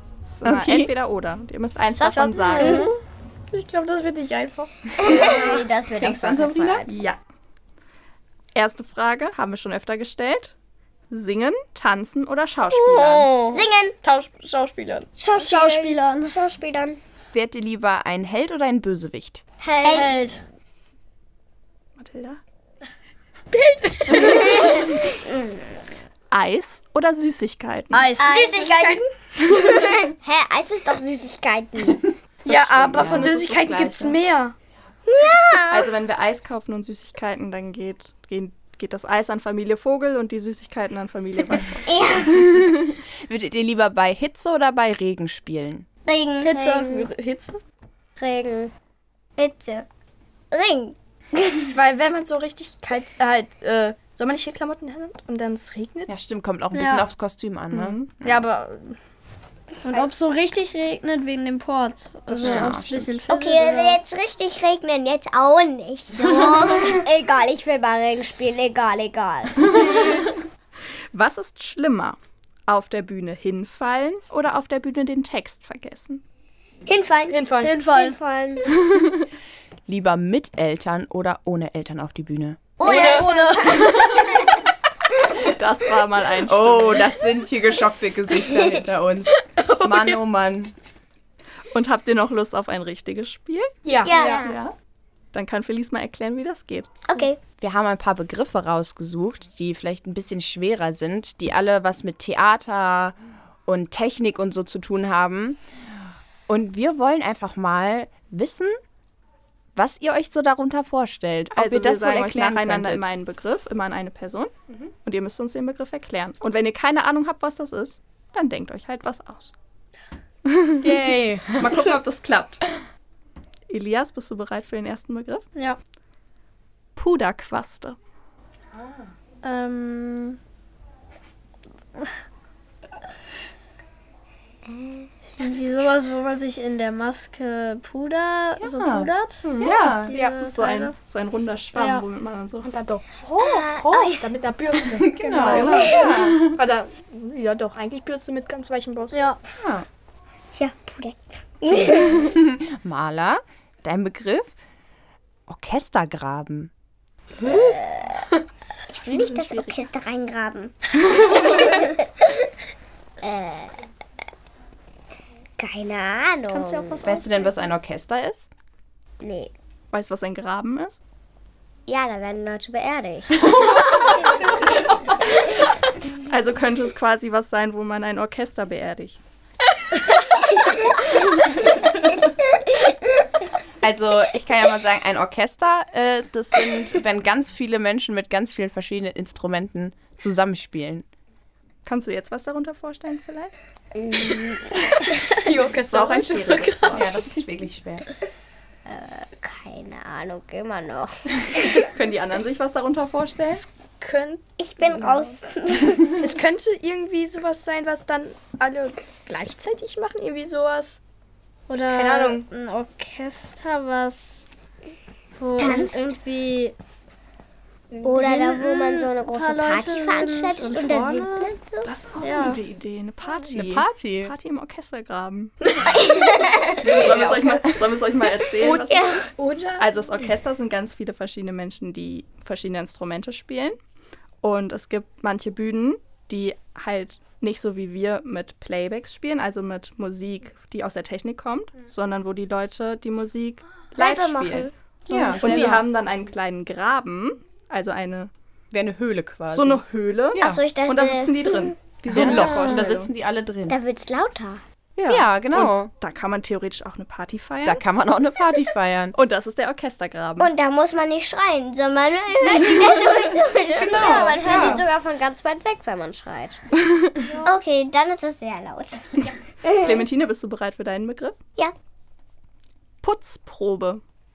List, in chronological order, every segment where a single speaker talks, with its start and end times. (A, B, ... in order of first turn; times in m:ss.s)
0:00.2-0:02.9 A
0:00.4-0:00.9 B
0:01.9-0:02.9 C
0:02.6-0:03.0 D
0:03.5-0:05.5 D
0:05.0-0:06.9 C
0:05.0-0:06.9 B
0:06.9-0:07.2 A
0:08.5-0:10.5 A
0:11.1-0:13.3 A
0:12.7-0:15.1 D
0:13.5-0:14.0 C
0:15.2-0:17.0 C
0:15.3-0:16.6 E
0:17.3-0:19.4 B
0:19.6-0:20.2 C
0:19.8-0:20.4 E
0:19.9-0:20.3 D
0:22.0-0:22.4 A
0:23.5-0:25.0 D
0:24.2-0:25.8 C
0:26.3-0:28.1 A
0:27.9-0:30.0 D
0:28.2-0:32.1 C
0:32.4-0:34.5 D
0:32.5-0:34.2 A
0:32.9-0:33.3 B
0:35.0-0:35.9 C
0:35.7-0:42.5 A
0:41.9-0:42.5 C
0:42.2-0:45.8 B
0:46.0-0:47.1 C
0:46.4-0:46.9 E
0:46.8-0:47.6 D
0:48.2-0:48.7 C
0:49.4-0:49.8 C
0:50.5-0:51.7 C
0:51.7-0:56.1 D
0:56.1-0:58.4 B
0:56.7-0:57.0 E
0:57.7-0:58.1 A
0:58.2-0:59.0 D
0:59.8-1:04.0 E
1:02.4-1:03.1 B
1:02.4-1:02.7 A
1:03.3-1:10.3 C
1:06.2-1:07.0 E
1:06.2-1:06.9 B
1:11.1-1:16.2 A
1:16.8-1:18.7 C
1:17.3-1:17.7 D
1:17.6-1:18.1 E
1:19.9-1:22.7 B
1:22.8-1:24.6 C
1:22.8-1:24.4 D
1:23.0-1:23.2 E
1:25.4-1:27.1 A
1:26.4-1:30.7 B
1:29.4-1:30.2 D
1:31.7-1:33.8 A
1:33.8-1:34.4 D
1:34.0-1:34.6 C
1:34.0-1:34.4 E
1:34.4-1:34.7 A
1:35.3-1:36.9 A
1:37.1-1:37.4 C
1:37.6-1:45.6 B
1:46.5-1:48.8 B
1:49.8-1:53.1 B
1:51.5-1:54.5 A
1:55.0-1:59.5 A
2:00.8-2:01.9 B
2:01.6-2:02.6 A
2:03.7-2:05.4 A
2:07.0-2:08.0 A
2:09.4-2:10.4 E
2:14.7-2:15.1 C
2:15.4-2:20.9 E
2:18.6-2:20.2 B
2:19.4-2:20.4 D
2:20.1-2:22.7 A
2:21.7-2:22.0 E
2:22.6-2:29.2 D
2:23.4-2:24.3 C
2:24.9-2:26.6 B
2:25.2-2:26.3 C
2:25.3-2:26.0 E
2:25.5-2:26.0 A
2:29.1-2:29.4 E
2:29.6-2:29.8 B
2:30.5-2:32.3 C
2:31.9-2:34.5 B
2:35.5-2:36.7 B
2:37.4-2:37.8 D
2:37.4-2:38.3 C
2:38.9-2:42.4 C
2:39.1-2:39.8 A
2:43.2-2:43.8 C
2:45.6-2:47.0 C
2:46.5-2:47.6 D
2:47.0-2:48.5 B
2:49.2-2:49.5 C
2:49.9-2:51.0 A
2:51.9-2:54.7 C
2:55.2-2:55.4 C
2:56.3-2:59.2 A
3:03.8-3:11.0 B
3:11.8-3:13.5 A
3:13.9-3:15.4 C
3:15.2-3:17.1 D
3:15.9-3:17.1 A
3:16.9-3:18.1 B
3:18.9-3:21.9 C
3:21.9-3:23.6 A
3:23.5-3:24.4 D
3:24.6-3:26.3 C
3:24.9-3:25.2 D
3:26.2-3:31.0 D
3:31.7-3:34.5 E
3:31.9-3:32.4 D
3:35.4-3:36.7 E
3:35.6-3:36.1 C
3:37.9-3:38.4 D
3:38.0-3:41.9 C
3:38.2-3:41.5 E
3:40.8-3:41.3 D
3:41.8-3:45.5 A
3:42.2-3:42.6 E
3:43.5-3:44.3 B
3:45.6-3:46.0 D
3:45.9-3:46.9 C
3:46.8-3:53.8 A
3:46.8-3:47.8 B
3:48.6-3:49.9 D
3:54.4-4:03.6 A
4:03.9-4:04.7 C
4:04.0-4:05.7 B
4:04.2-4:04.7 A
4:05.2-4:05.8 D
4:05.4-4:08.3 A
4:08.7-4:09.8 B
4:09.5-4:13.1 A
4:10.3-4:11.8 C
4:12.0-4:13.8 B
4:13.7-4:14.6 C
4:15.0-4:17.8 A
4:15.0-4:15.9 B
4:17.6-4:19.2 B
4:19.2-4:20.5 A
4:20.4-4:26.6 C
4:23.8-4:24.8 B
4:27.4-4:30.0 C
4:29.8-4:31.4 A
4:33.0-4:34.0 A